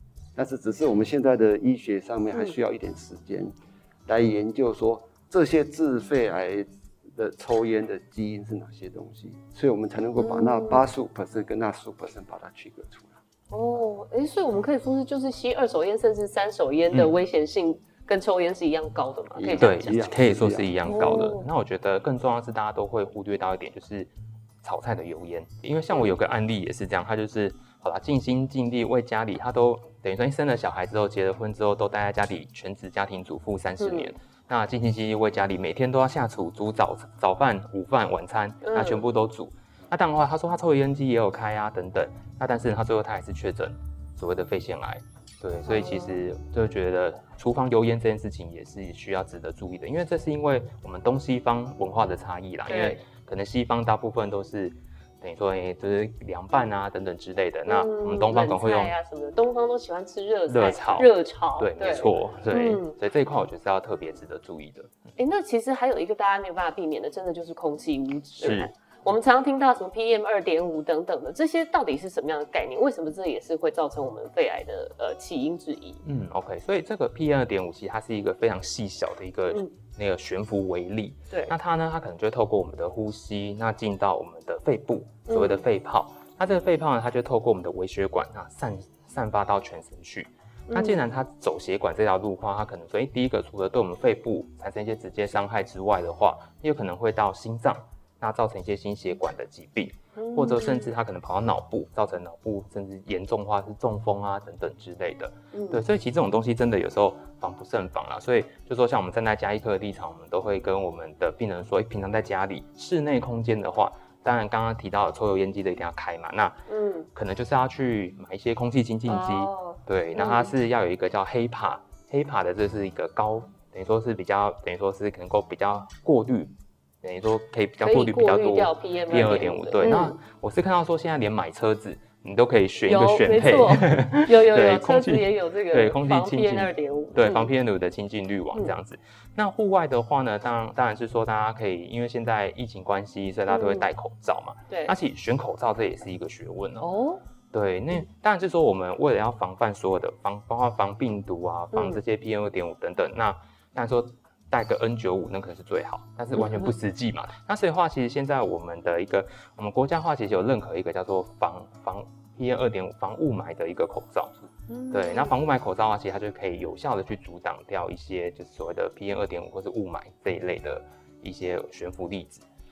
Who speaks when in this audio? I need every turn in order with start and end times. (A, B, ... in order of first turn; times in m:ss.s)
0:00.4-0:03.5 A
0:04.0-0:13.2 A
0:10.2-0:10.8 B
0:13.5-0:20.0 B
0:19.3-0:21.2 A
0:19.6-0:24.1 C
0:20.8-0:21.5 B
0:24.6-0:58.9 C
0:33.8-0:34.1 B
0:38.6-0:39.0 B
0:45.6-0:46.2 B
0:52.7-0:53.0 B
0:57.7-1:02.9 B
1:00.5-1:05.1 C
1:05.2-1:16.0 B
1:08.4-1:08.7 C
1:16.0-1:56.6 C
1:25.3-1:25.6 B
1:30.7-1:31.0 B
1:40.2-1:40.9 B
1:45.5-1:45.8 B
1:56.7-1:57.1 B
1:57.1-2:26.9 C
1:59.1-2:00.5 B
2:07.8-2:10.2 B
2:12.8-2:17.5 B
2:23.5-2:23.9 B
2:24.7-2:24.9 B
2:26.8-2:27.2 B
2:27.5-2:44.3 C
2:31.7-2:32.0 B
2:36.4-2:36.7 B
2:44.7-2:45.3 B
2:44.9-2:52.4 C